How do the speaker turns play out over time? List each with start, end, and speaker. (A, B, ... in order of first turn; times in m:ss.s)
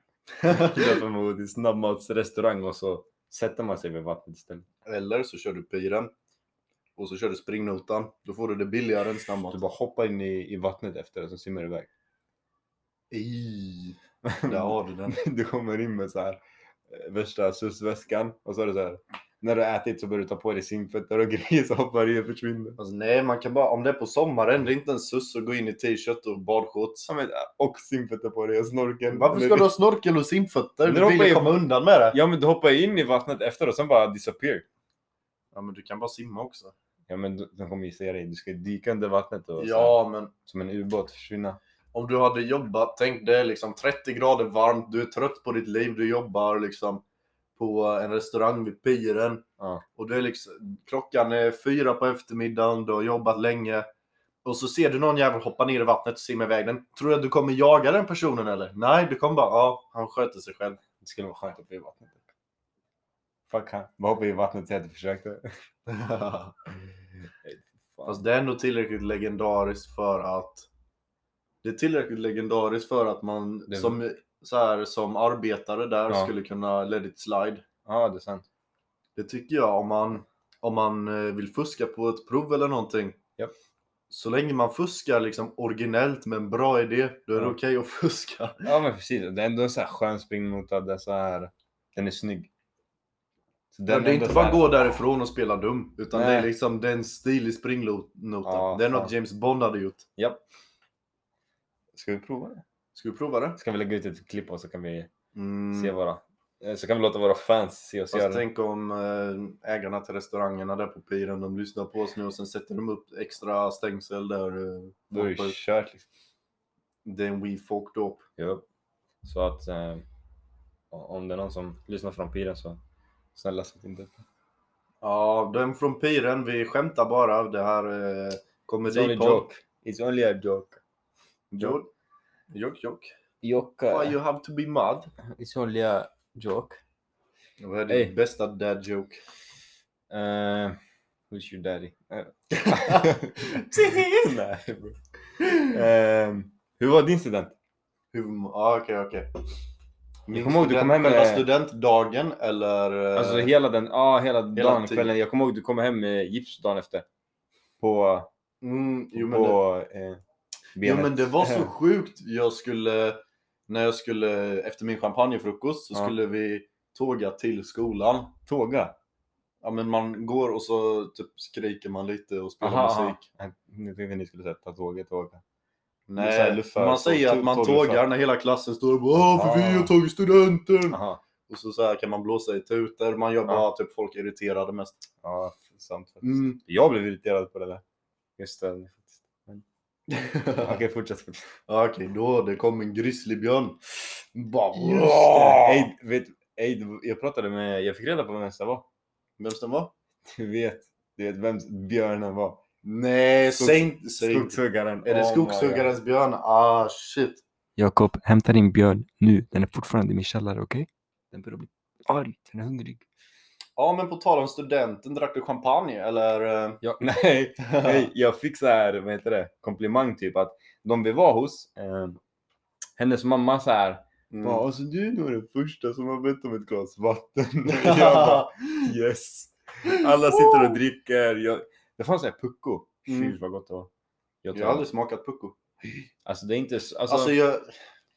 0:00.4-0:00.9 A
0:00.4-0:04.6 B
0:04.8-0:06.1 A
0:07.0-0:09.6 A
0:09.5-0:11.9 B
0:13.1-0:15.2 A
0:14.2-0:22.8 B
0:22.8-0:27.1 A
0:27.1-0:29.7 B
0:29.1-0:32.2 A
0:30.8-0:31.6 B
0:32.1-0:34.6 B
0:35.5-0:36.7 A
0:37.1-0:41.6 B
0:39.6-0:40.3 A
0:41.9-0:47.0 A
0:47.6-0:49.4 A
0:49.6-0:49.8 B
0:50.0-0:53.9 A
0:54.4-1:00.8 A
1:01.0-1:02.3 B
1:03.5-1:05.5 B
1:05.9-1:06.6 A
1:07.4-1:08.2 B
1:08.0-1:10.7 A
1:11.6-1:17.6 A
1:13.7-1:14.0 B
1:17.8-1:18.4 B
1:19.2-1:23.2 A
1:24.1-1:28.6 A
1:28.6-1:32.5 B
1:33.7-1:34.8 B
1:33.9-1:40.0 A
1:36.1-1:36.5 B
1:38.4-1:39.1 B
1:40.2-1:40.4 B
1:41.9-1:42.6 B
1:42.9-1:43.6 A
1:43.6-1:45.1 B
1:45.3-1:45.9 A
1:45.7-1:48.4 B
1:48.1-1:55.6 A
1:55.1-1:56.0 B
1:57.0-1:58.2 A
1:58.4-1:58.6 B
1:59.2-2:00.0 B
2:00.9-2:02.8 B
2:03.3-2:04.2 B
2:05.0-2:09.4 A
2:08.8-2:10.8 B
2:11.5-2:11.9 A
2:12.5-2:13.1 A
2:13.4-2:14.2 B
2:13.9-2:15.1 A
2:15.2-2:16.8 B
2:17.6-2:19.2 A
2:17.9-2:18.1 B
2:20.1-2:20.8 B
2:21.3-2:27.5 B
2:22.5-2:24.4 A
2:25.4-2:25.7 A
2:28.1-2:29.3 A
2:30.3-2:33.5 A
2:30.3-2:31.5 B
2:33.1-2:37.0 B
2:34.5-2:35.1 A
2:37.8-2:38.3 B
2:38.6-2:39.6 A
2:39.1-2:40.2 B
2:40.8-2:41.7 B
2:40.8-2:48.3 A
2:48.4-2:48.9 B
2:49.6-2:53.2 A
2:52.6-2:55.4 B
2:56.1-3:05.0 A
2:56.2-2:58.0 B
2:59.2-2:59.9 B
3:00.9-3:01.2 B
3:05.2-3:07.8 B
3:06.2-3:06.6 A
3:08.4-3:09.6 B
3:10.1-3:10.8 A
3:10.6-3:11.5 B
3:11.7-3:13.8 A
3:14.3-3:15.9 A
3:14.7-3:18.8 B
3:19.4-3:19.9 A
3:20.3-3:22.6 B
3:22.8-3:27.4 A
3:23.4-3:25.9 B
3:27.8-3:33.0 B
3:33.8-3:36.8 A
3:36.8-3:42.2 B
3:37.6-3:38.1 A
3:43.0-3:53.9 B
3:44.3-3:44.6 A
3:47.7-3:48.8 A
3:49.9-3:50.8 A
3:53.1-3:53.4 A
3:54.4-3:54.9 B
3:54.5-3:55.6 A
3:56.2-3:57.4 B
3:57.1-3:57.7 A